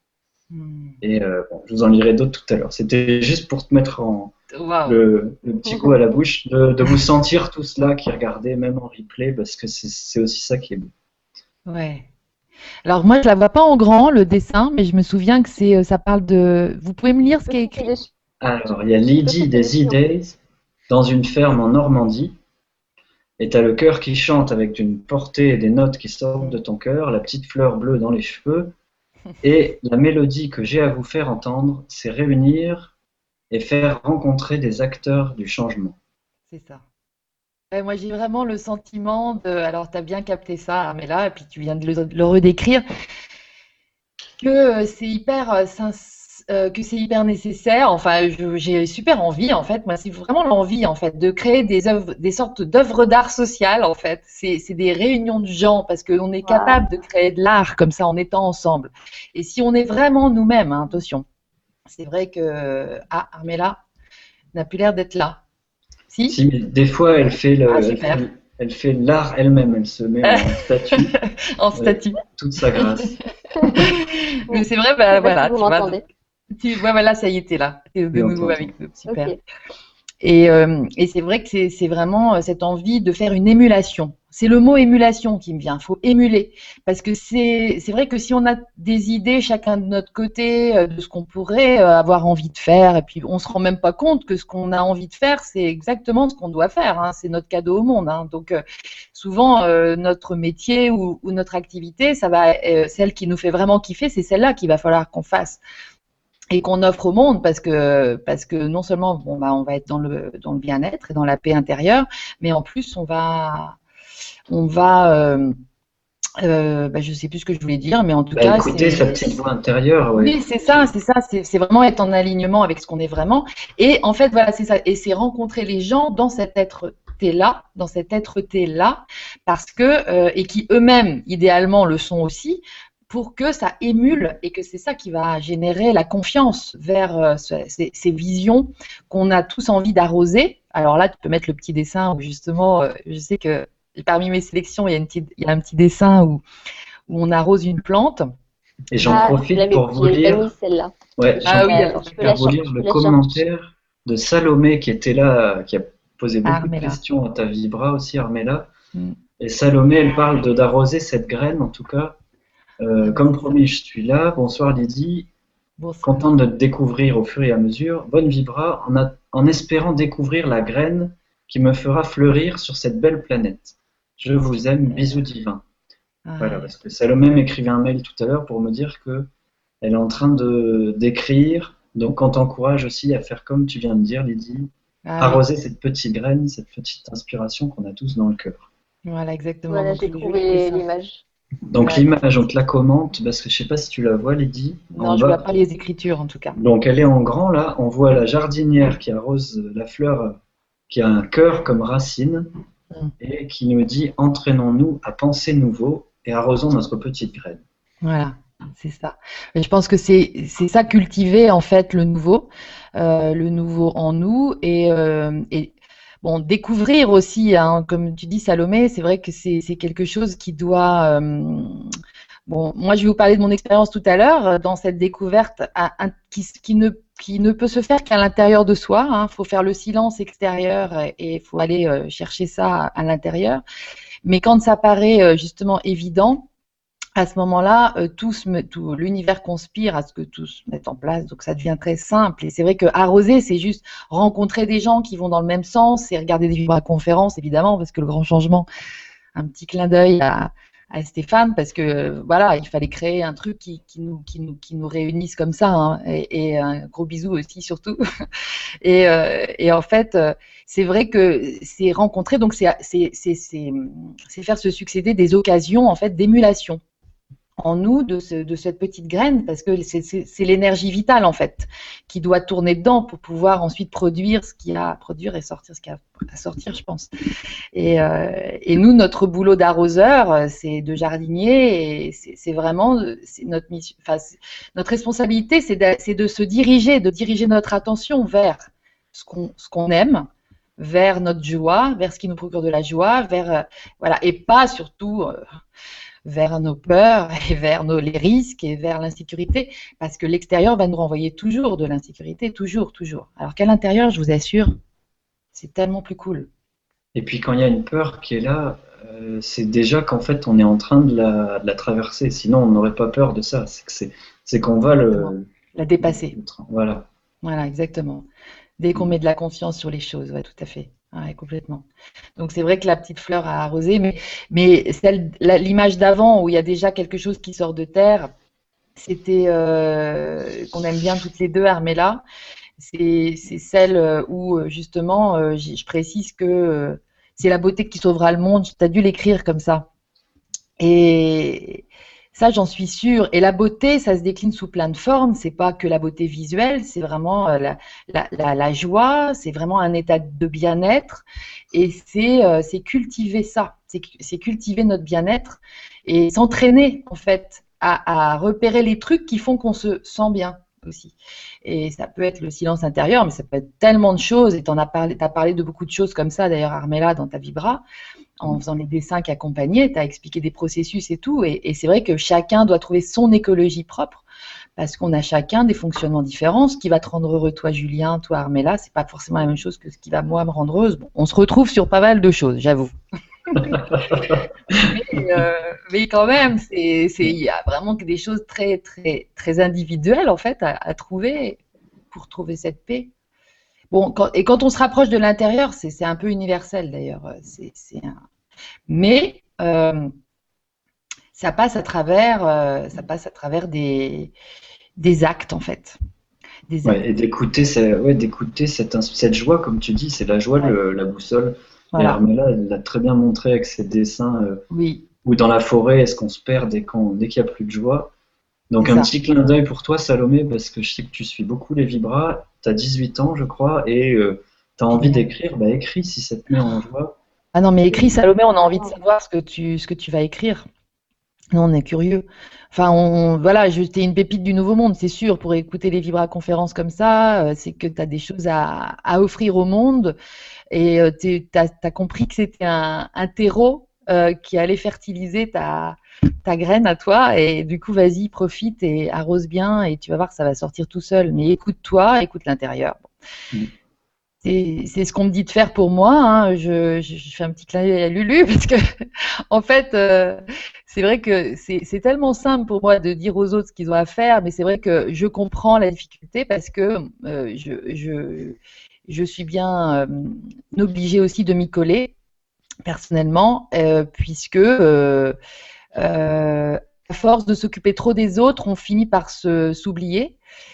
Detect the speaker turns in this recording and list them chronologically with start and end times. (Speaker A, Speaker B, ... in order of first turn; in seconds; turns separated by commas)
Speaker A: 0.5-1.0, Speaker B: 1.0-4.3, Speaker A: 4.5-5.0, Speaker B: 4.8-10.9, Speaker A: 11.7-12.1, Speaker A: 12.8-17.9, Speaker C: 17.5-18.1, Speaker B: 18.4-20.4, Speaker C: 19.2-19.9, Speaker B: 20.9-22.4, Speaker B: 23.4-28.7, Speaker B: 29.4-32.9, Speaker B: 33.5-36.0, Speaker A: 36.5-36.8, Speaker A: 37.7-42.8, Speaker A: 44.4-61.2, Speaker C: 56.4-56.8, Speaker A: 61.9-63.8, Speaker A: 64.5-65.4, Speaker A: 66.1-66.3, Speaker B: 66.3-71.2, Speaker A: 67.7-68.2, Speaker A: 70.2-72.2, Speaker B: 71.7-73.2, Speaker A: 72.7-73.1, Speaker A: 73.6-79.3, Speaker C: 74.5-76.0, Speaker B: 78.1-78.7, Speaker C: 79.1-79.3, Speaker A: 80.2-98.6, Speaker A: 99.1-105.6, Speaker A: 106.5-113.8, Speaker A: 114.5-115.5, Speaker A: 116.4-119.4, Speaker B: 118.3-120.9, Speaker A: 120.2-146.4, Speaker A: 147.1-148.3, Speaker B: 148.9-150.5, Speaker C: 149.0-153.4, Speaker B: 151.2-158.7, Speaker A: 151.4-152.2, Speaker A: 156.4-157.0, Speaker B: 159.4-162.2, Speaker B: 162.8-165.3, Speaker A: 163.0-163.6, Speaker A: 165.8-166.3, Speaker B: 166.0-175.6, Speaker A: 176.2-176.7, Speaker B: 176.4-179.3, Speaker B: 179.8-188.7, Speaker A: 185.1-185.4, Speaker A: 189.1-190.8, Speaker C: 189.7-191.2, Speaker B: 191.7-195.4, Speaker A: 191.8-192.1, Speaker A: 195.0-196.6, Speaker B: 196.5-200.4, Speaker B: 200.9-202.5, Speaker B: 203.2-207.6, Speaker A: 208.0-221.9, Speaker A: 222.4-233.6, Speaker A: 234.2-236.5, Speaker A: 237.2-248.7, Speaker A: 249.3-258.0, Speaker A: 258.8-266.8, Speaker A: 267.6-277.1, Speaker A: 277.7-295.4, Speaker A: 296.2-304.8, Speaker A: 305.5-306.5, Speaker B: 307.1-317.1, Speaker A: 314.9-316.4, Speaker A: 317.4-318.2, Speaker A: 318.8-321.9, Speaker A: 322.4-328.3, Speaker A: 328.9-332.2, Speaker A: 332.8-339.9, Speaker A: 340.8-367.8, Speaker A: 368.4-374.2, Speaker A: 374.8-382.9, Speaker A: 383.5-384.2, Speaker B: 383.5-385.4, Speaker A: 384.8-391.6, Speaker A: 392.1-393.1, Speaker A: 393.9-398.2, Speaker A: 398.9-400.1, Speaker A: 401.3-404.3, Speaker A: 405.0-406.0, Speaker A: 406.7-407.0, Speaker B: 406.8-414.6, Speaker A: 411.9-412.2, Speaker A: 414.7-415.1, Speaker B: 415.2-418.1, Speaker B: 418.7-427.2, Speaker A: 418.8-419.1, Speaker A: 424.9-425.3, Speaker A: 427.5-430.6, Speaker C: 428.0-428.9, Speaker A: 431.5-440.1, Speaker A: 440.7-453.1, Speaker A: 454.4-458.8, Speaker A: 459.5-472.1, Speaker A: 472.8-475.4, Speaker A: 475.9-480.4